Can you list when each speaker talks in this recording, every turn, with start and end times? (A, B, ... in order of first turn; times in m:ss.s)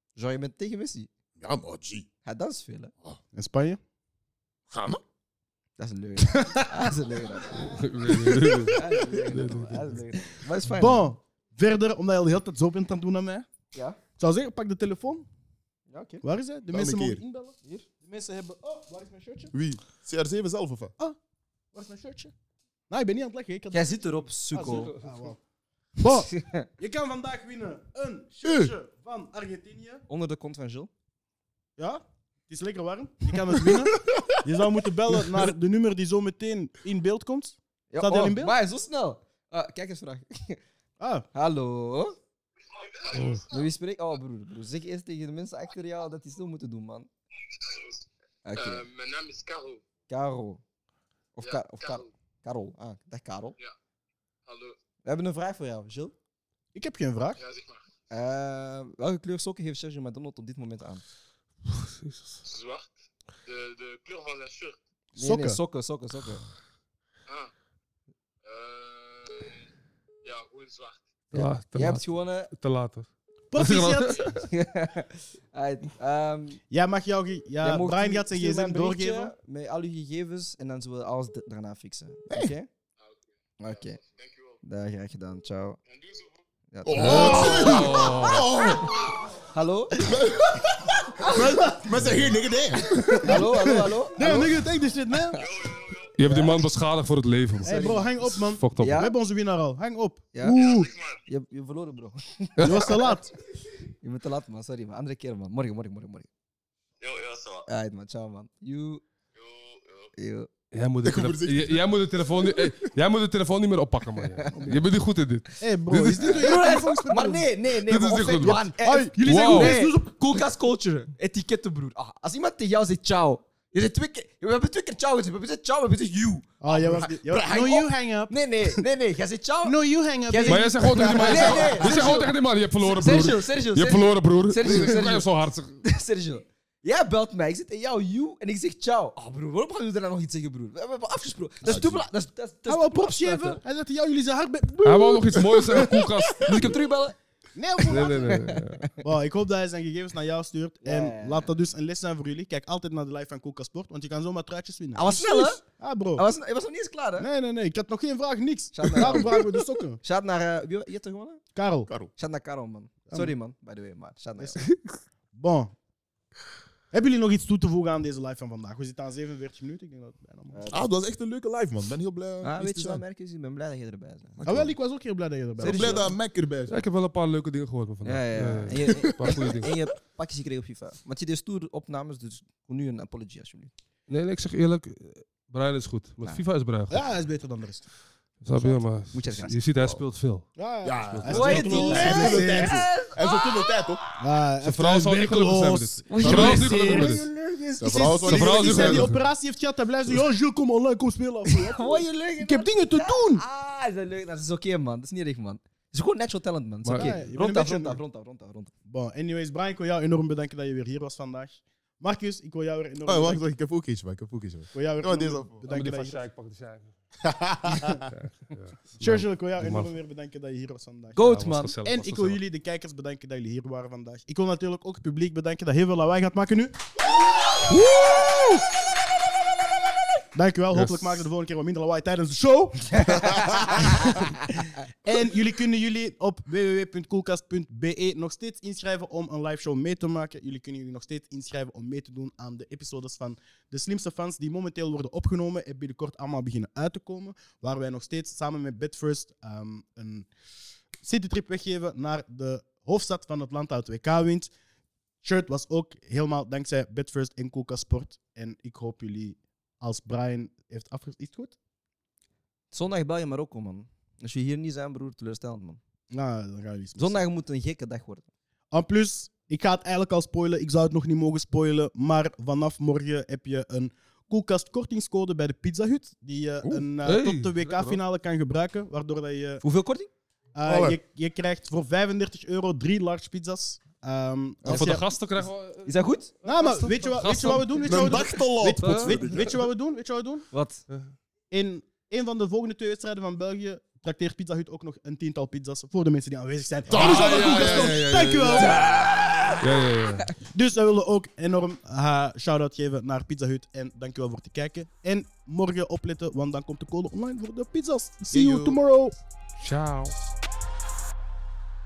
0:00.2-0:01.1 A
0:01.4-0:02.1 B
0:02.2-0:02.9 A
0:03.3-0:03.8 C
0:04.7-0:05.0 B
0:05.8-0:07.8 A
0:06.3-0:08.5 C
0:07.7-0:10.0 D
0:08.6-0:11.0 A
0:09.4-0:09.9 C
0:10.7-0:13.5 C
0:14.2-0:15.3 C
0:15.9-0:16.2 A
0:16.2-0:19.5 C
0:16.7-0:17.2 B
0:19.5-0:20.9 B
0:21.7-0:22.3 C
0:22.9-0:24.0 C
0:23.7-0:24.9 A
0:24.5-0:25.4 C
0:24.6-0:25.3 D
0:26.0-0:30.0 C
0:26.3-0:26.6 A
0:28.4-0:28.7 B
0:30.1-0:30.9 A
0:31.8-0:38.6 C
0:33.7-0:34.4 B
0:37.9-0:40.6 A
0:41.0-0:41.2 C
0:41.3-0:42.2 A
0:42.7-0:43.7 E
0:43.1-0:43.4 D
0:43.5-0:47.1 A
0:47.5-0:49.8 E
0:48.4-0:48.8 A
0:50.1-0:50.6 A
0:51.4-0:53.6 A
0:51.4-0:52.1 E
0:54.4-0:54.7 E
0:55.0-0:56.1 A
0:56.7-0:57.4 C
0:57.4-0:57.8 E
0:58.1-1:01.0 A
1:01.7-1:02.4 D
1:02.4-1:02.9 E
1:03.4-1:04.8 E
1:05.1-1:05.6 C
1:05.2-1:06.4 A
1:08.4-1:09.6 E
1:10.2-1:11.3 E
1:11.3-1:14.4 D
1:11.7-1:12.5 A
1:13.5-1:14.3 C
1:14.1-1:14.4 E
1:14.4-1:16.6 A
1:16.7-1:19.3 C
1:17.6-1:22.7 A
1:23.0-1:24.6 E
1:23.6-1:24.0 A
1:24.6-1:25.8 A
1:25.9-1:26.4 E
1:26.7-1:28.0 A
1:26.8-1:29.1 B
1:26.9-1:28.5 D
1:27.0-1:27.8 C
1:28.8-1:29.2 E
1:29.5-1:30.1 A
1:30.0-1:33.4 B
1:31.2-1:31.9 C
1:32.9-1:35.4 C
1:33.2-1:34.7 A
1:35.3-1:35.7 A
1:35.4-1:36.2 E
1:36.2-1:39.0 D
1:36.2-1:36.6 A
1:37.6-1:38.1 A
1:37.6-1:40.9 C
1:38.8-1:39.1 A
1:40.3-1:40.7 A
1:40.5-1:41.3 E
1:41.3-1:43.2 A
1:42.6-1:42.9 D
1:42.6-1:43.3 C
1:44.0-1:46.3 A
1:47.0-1:47.7 E
1:47.7-1:49.0 A
1:49.3-1:50.1 E
1:50.2-1:50.5 A
1:50.7-1:56.6 D
1:51.0-1:52.9 B
1:54.3-1:54.8 A
1:55.6-1:57.5 C
1:56.2-2:09.8 A
1:57.8-1:58.6 D
1:58.4-2:00.4 C
1:59.2-1:59.8 D
2:06.6-2:08.8 C
2:09.6-2:12.2 C
2:10.3-2:15.3 A
2:10.4-2:15.8 D
2:15.8-2:23.6 A
2:21.6-2:22.1 B
2:22.7-2:25.7 C
2:24.8-2:26.7 D
2:25.7-2:27.2 A
2:26.5-2:26.7 B
2:27.5-2:28.4 C
2:27.9-2:28.9 D
2:27.9-2:28.9 A
2:29.0-2:36.2 C
2:30.8-2:31.5 A
2:35.0-2:35.6 A
2:35.0-2:35.6 B
2:36.2-2:37.3 A
2:37.2-2:40.0 C
2:38.7-2:41.4 A
2:41.5-2:41.9 C
2:41.9-2:42.1 B
2:42.1-2:44.7 A
2:43.1-2:43.3 C
2:44.4-2:44.6 C
2:45.3-2:45.7 C
2:46.9-2:50.6 C
2:50.5-2:50.9 A
2:50.7-2:53.0 B
2:52.4-2:54.4 A
2:54.3-2:54.7 B
2:54.4-2:56.1 C
2:55.6-2:56.8 B
2:55.6-2:56.1 A
2:56.7-2:59.7 D
2:58.0-3:03.7 A
2:59.2-2:59.7 B
3:04.1-3:07.0 D
3:06.9-3:07.9 C
3:08.4-3:10.5 D
3:08.5-3:10.0 A
3:10.6-3:12.8 C
3:10.8-3:14.0 B
3:11.1-3:12.5 D
3:11.3-3:13.9 A
3:14.2-3:23.4 C
3:14.6-3:17.2 D
3:16.1-3:17.2 A
3:16.2-3:16.7 B
3:17.8-3:19.1 B
3:18.2-3:19.2 D
3:21.5-3:28.7 A
3:26.8-3:27.2 D
3:27.0-3:28.0 C
3:28.9-3:33.4 C
3:33.0-3:35.6 B
3:34.7-3:36.2 C
3:35.6-3:36.9 D
3:37.2-3:38.1 B
3:37.7-3:38.0 C
3:38.1-3:39.9 D
3:39.0-3:41.2 C
3:41.1-3:41.7 A
3:41.2-3:42.4 D
3:41.8-3:46.7 C
3:47.6-3:48.6 A
3:50.3-3:54.3 C
3:50.7-3:51.2 D
3:53.2-3:54.1 A
3:55.0-4:10.3 C
4:11.0-4:14.5 C
4:15.2-4:21.5 C
4:22.7-4:25.8 A
4:26.1-4:27.2 C
4:27.0-4:28.3 A
4:28.7-4:39.6 C
4:37.0-4:38.0 D
4:39.6-4:40.1 A
4:40.5-4:45.1 C
4:40.6-4:41.0 B
4:44.6-4:45.0 A
4:44.6-4:48.2 D
4:45.8-4:46.3 A
4:46.4-4:50.5 C
4:47.8-4:49.6 B
4:48.8-4:49.5 D
4:50.5-4:50.8 A
4:50.9-4:51.1 D
4:51.5-4:58.8 C
4:56.9-4:57.9 B
4:56.9-4:59.0 D
4:58.5-5:00.3 A
4:59.6-5:00.3 D
5:00.5-5:09.1 C
5:08.3-5:08.8 B
5:09.6-5:10.1 D